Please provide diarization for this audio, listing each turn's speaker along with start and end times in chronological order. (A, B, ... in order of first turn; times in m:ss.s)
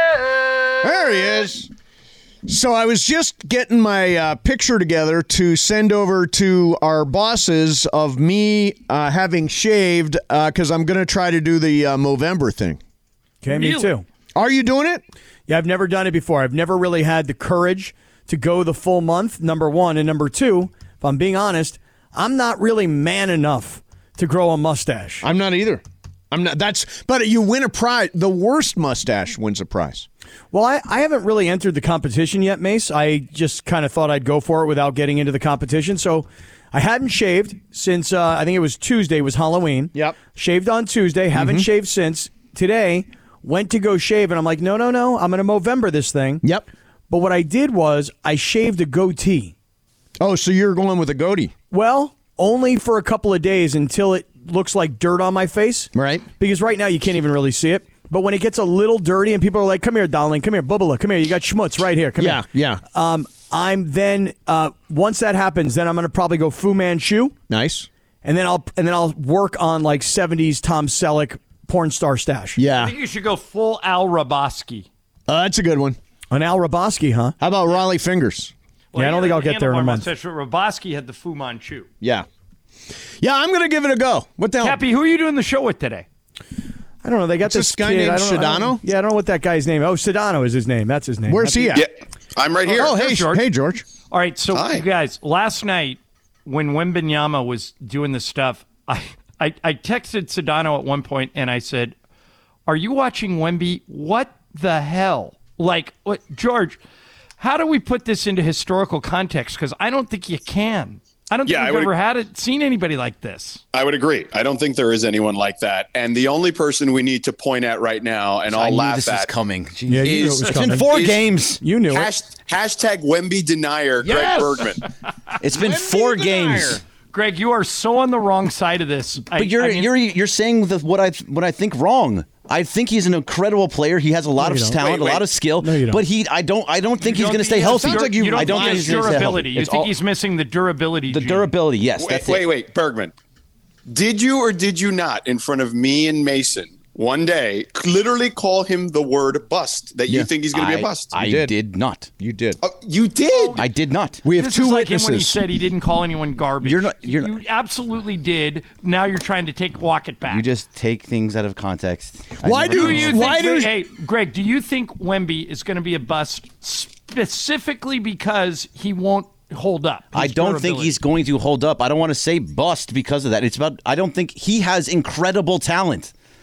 0:00.8-0:01.7 A
0:02.4-0:12.8 A
0:13.4-0:14.0 B
0:13.5-0:13.9 C
0:14.4-0:15.0 A
0:15.5-0:25.2 B
0:25.2-0:30.0 A
0:30.5-0:46.4 B
0:41.4-0:41.7 A
0:46.4-0:46.7 A
0:47.1-0:49.5 B
0:50.2-0:51.5 A
0:51.7-1:07.4 B
0:55.9-0:56.3 A
1:02.2-1:02.8 A
1:07.5-1:07.9 A
1:08.2-1:12.6 B
1:12.6-1:13.0 A
1:12.7-1:14.9 C
1:15.3-1:16.0 A
1:16.3-1:17.4 B
1:17.4-1:18.5 A
1:18.9-1:21.9 C
1:19.0-1:20.1 B
1:22.0-1:22.3 A
1:23.2-1:24.8 A
1:24.6-1:26.1 C
1:27.0-1:31.8 B
1:27.4-1:28.8 A
1:31.3-1:31.9 A
1:31.7-1:33.0 D
1:32.7-1:33.8 A
1:32.7-1:33.5 C
1:34.1-1:41.9 C
1:34.5-1:34.8 D
1:42.7-1:46.8 C
1:47.4-1:53.6 C
1:51.5-1:51.9 D
1:53.7-1:59.3 D
1:58.5-2:01.6 E
1:59.9-2:00.9 B
2:00.2-2:04.8 D
2:01.6-2:02.1 B
2:04.0-2:04.7 A
2:05.4-2:06.8 E
2:05.4-2:06.8 A
2:07.1-2:09.9 C
2:09.3-2:19.9 E
2:14.4-2:14.8 B
2:14.7-2:15.2 D
2:15.6-2:16.0 B
2:17.0-2:21.5 C
2:17.5-2:19.4 A
2:21.1-2:22.5 E
2:22.0-2:23.1 D
2:23.9-2:31.1 D
2:30.5-2:32.1 E
2:31.1-2:31.5 A
2:32.1-2:32.6 A
2:32.6-2:33.6 D
2:33.3-2:33.7 C
2:33.6-2:34.2 E
2:34.2-2:35.4 A
2:34.3-2:40.4 C
2:36.6-2:37.4 E
2:40.3-2:43.4 E
2:42.4-2:43.7 A
2:42.7-2:51.0 C
2:50.1-2:56.1 E